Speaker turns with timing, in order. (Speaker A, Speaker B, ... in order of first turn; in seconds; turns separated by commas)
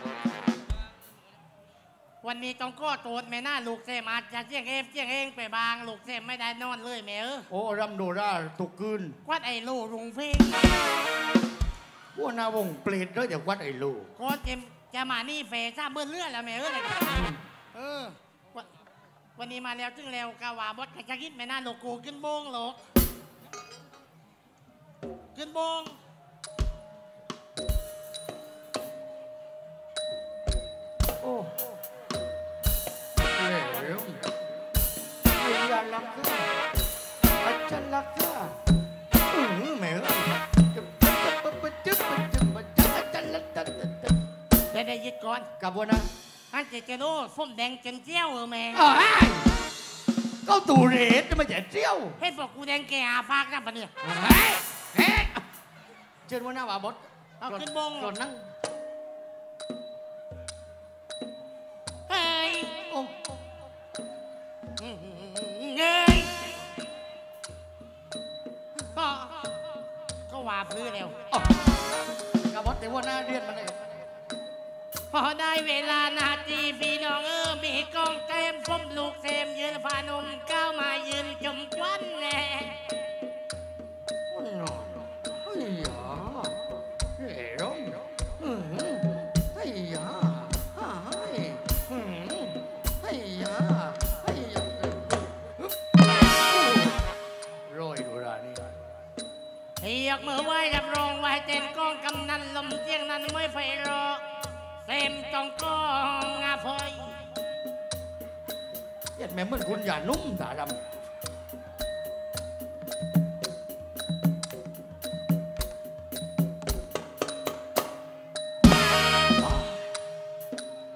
Speaker A: 2.2-7.5, Speaker B: 7.5-9.2, Speaker A: 9.2-10.7, Speaker B: 12.1-14.1, Speaker A: 14.2-17.0, Speaker B: 17.0-17.4, Speaker A: 17.7-18.7, Speaker A: 19.4-22.8, Speaker A: 25.3-26.0, Speaker B: 31.2-31.5, Speaker B: 33.3-34.2, Speaker B: 35.3-36.5, Speaker B: 37.4-38.5, Speaker B: 39.3-44.2, Speaker A: 44.7-45.5, Speaker B: 45.6-46.1, Speaker A: 46.5-48.8, Speaker B: 48.7-49.5, Speaker B: 50.4-52.2, Speaker A: 52.2-53.9, Speaker B: 54.0-55.4, Speaker B: 56.2-58.5, Speaker A: 57.4-58.1, Speaker A: 62.1-62.9, Speaker B: 62.9-63.1, Speaker A: 64.8-66.6, Speaker A: 68.9-69.6, Speaker A: 70.3-71.2, Speaker B: 71.3-71.5, Speaker B: 72.5-73.9, Speaker A: 75.1-82.9, Speaker B: 84.3-95.6, Speaker B: 96.3-97.1, Speaker B: 97.7-98.9, Speaker A: 99.8-107.2, Speaker B: 109.2-110.9, Speaker B: 119.4-119.8